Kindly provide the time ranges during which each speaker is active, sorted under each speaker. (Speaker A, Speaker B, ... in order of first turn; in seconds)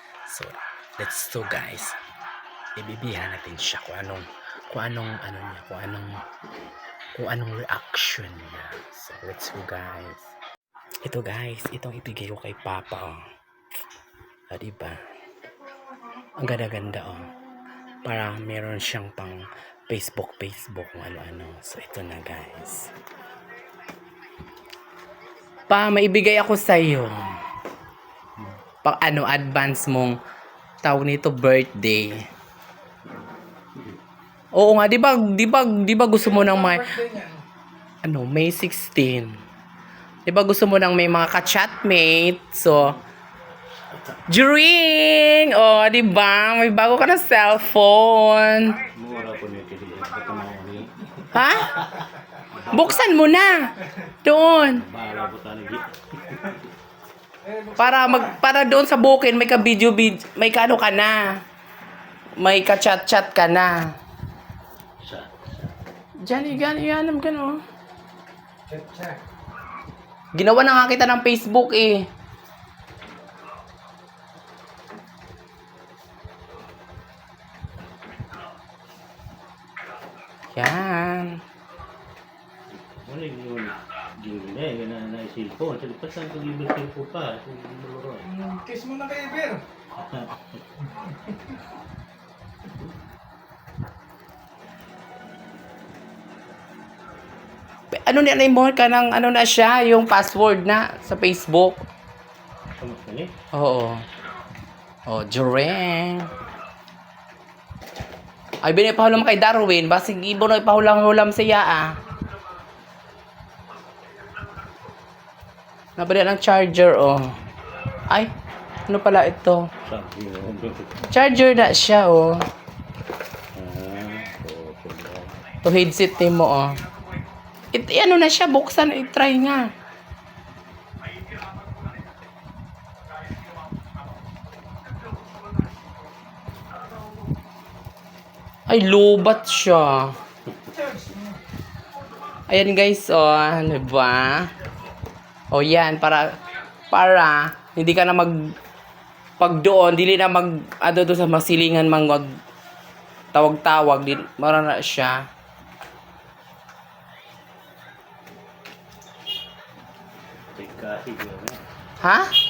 Speaker A: 0.3-2.0, 2.8-6.2, 7.2-10.3, 11.0-13.2, 14.5-15.0, 16.4-17.3, 18.0-22.9, 25.7-27.3, 28.8-30.2, 30.8-32.2, 34.5-37.0, 38.0-39.4, 40.3-43.0, 44.3-48.8, 51.3-51.9, 52.6-54.9, 57.8-61.4, 62.4-63.9, 66.2-67.6, 70.3-72.1, 80.5-81.4, 97.9-101.8, 103.5-104.0, 105.1-106.3, 108.6-112.0, 116.0-117.4, 118.9-119.7, 121.0-122.5, 125.6-126.8, 127.7-129.7, 138.7-140.2, 142.5-144.5, 145.5-146.4, 146.9-148.5, 149.4-152.3, 153.3-155.2, 162.0-162.3
Speaker B: 36.5-37.4, 57.4-58.2, 68.7-69.2, 88.3-89.6, 140.8-141.3
Speaker C: 48.9-51.1, 51.9-53.0, 54.7-56.6, 65.0-65.7, 82.7-88.4, 90.0-90.5, 102.8-103.3, 119.8-121.0, 123.5-125.3, 160.6-161.6